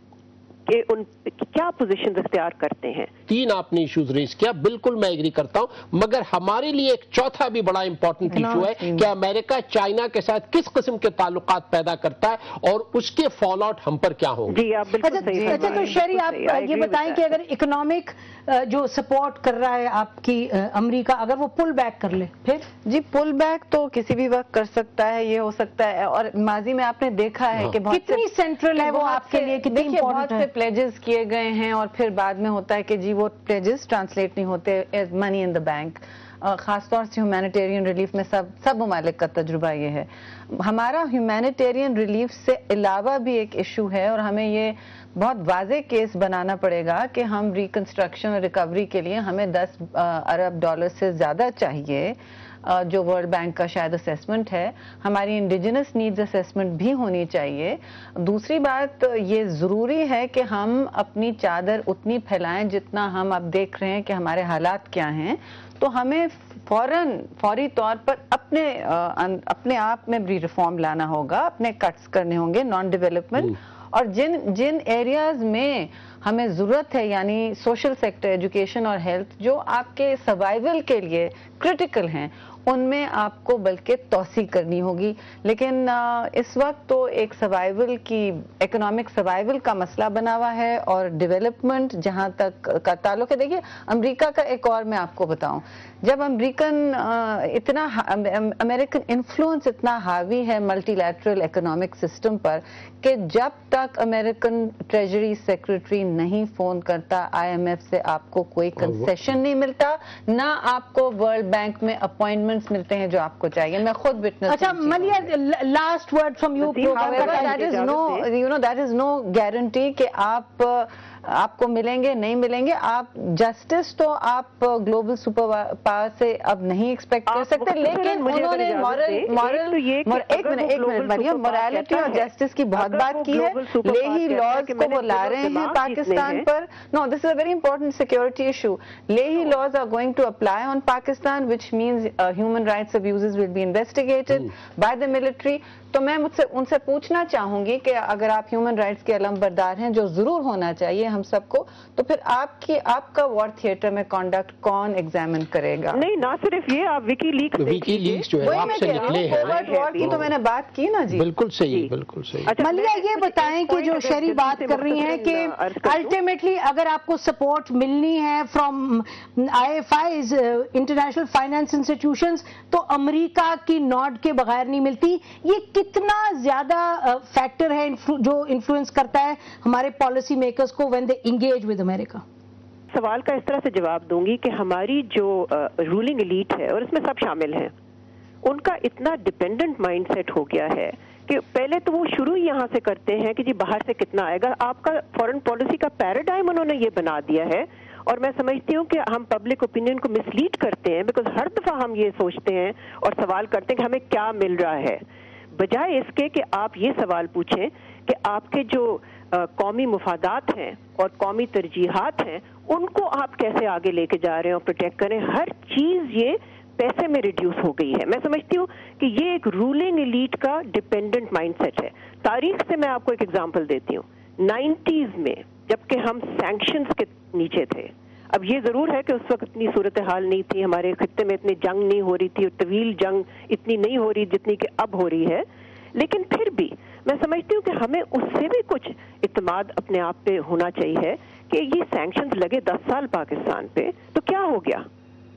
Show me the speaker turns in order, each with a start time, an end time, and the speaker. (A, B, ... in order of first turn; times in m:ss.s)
0:00.7-0:03.1 A
0:03.3-0:14.6 B
0:08.3-0:08.6 C
0:08.5-0:09.1 D
0:14.5-0:17.3 A
0:15.0-0:22.7 C
0:15.2-0:16.0 D
0:22.8-1:55.3 D
0:27.9-0:30.5 C
1:48.8-1:49.1 B
1:54.5-1:57.6 C
1:56.6-1:58.3 A
1:56.9-2:36.0 D
2:07.3-2:16.5 A
2:35.9-2:40.3 A
2:37.6-2:40.3 B
2:38.4-2:41.2 D
2:41.1-2:42.5 B
2:42.4-2:46.1 A
2:42.6-3:02.2 C
3:02.9-3:07.7 A
3:08.4-3:25.0 A
3:25.5-3:55.4 A
3:55.9-4:04.8 A